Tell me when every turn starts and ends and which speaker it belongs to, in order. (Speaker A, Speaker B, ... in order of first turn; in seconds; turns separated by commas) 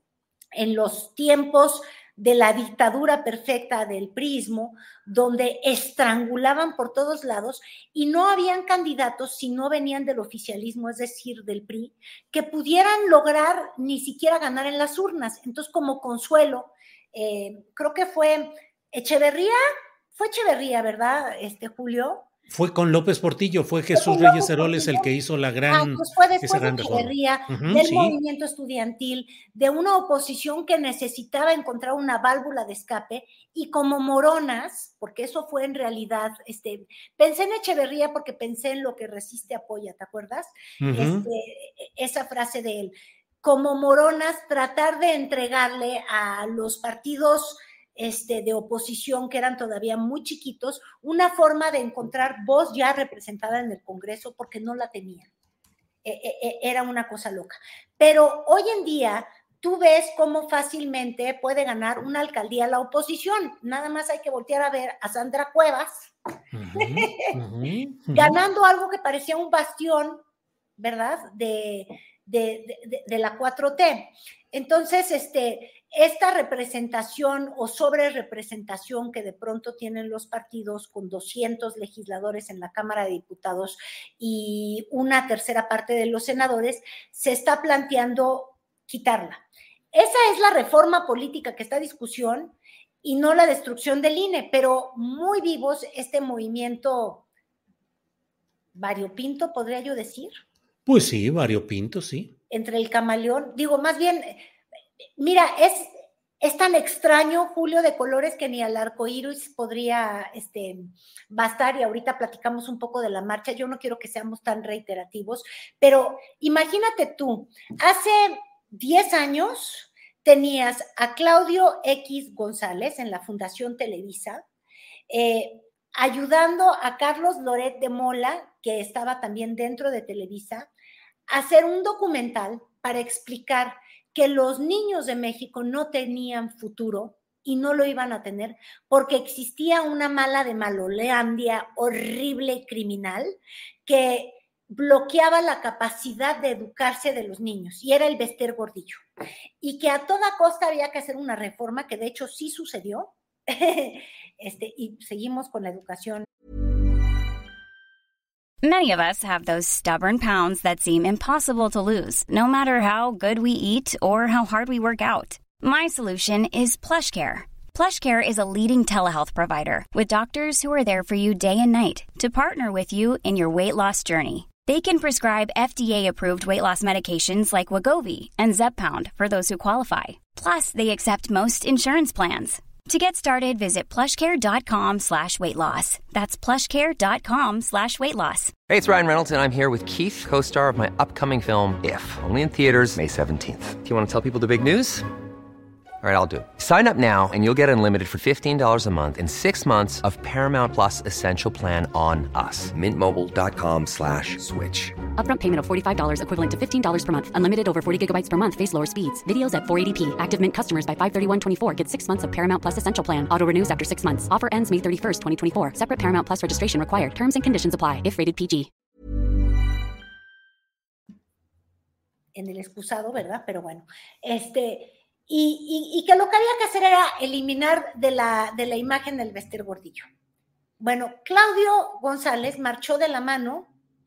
Speaker A: 0.6-19.6, Speaker A: 20.1-22.3, Speaker B: 22.5-28.2, Speaker A: 23.9-25.1, Speaker A: 25.7-55.3, Speaker B: 40.8-41.3, Speaker A: 56.0-66.1, Speaker B: 66.5-68.4, Speaker A: 66.8-67.3, Speaker A: 68.1-70.2, Speaker A: 70.8-97.2, Speaker A: 98.8-100.3, Speaker B: 100.9-102.3, Speaker A: 102.5-104.4, Speaker A: 105.2-124.4, Speaker A: 125.1-130.7, Speaker A: 131.3-149.0, Speaker A: 149.6-156.3, Speaker C: 158.6-188.6, Speaker D: 188.7-195.1, Speaker D: 196.0-204.9, Speaker E: 205.2-218.7, Speaker A: 222.3-230.0, Speaker A: 230.8-233.7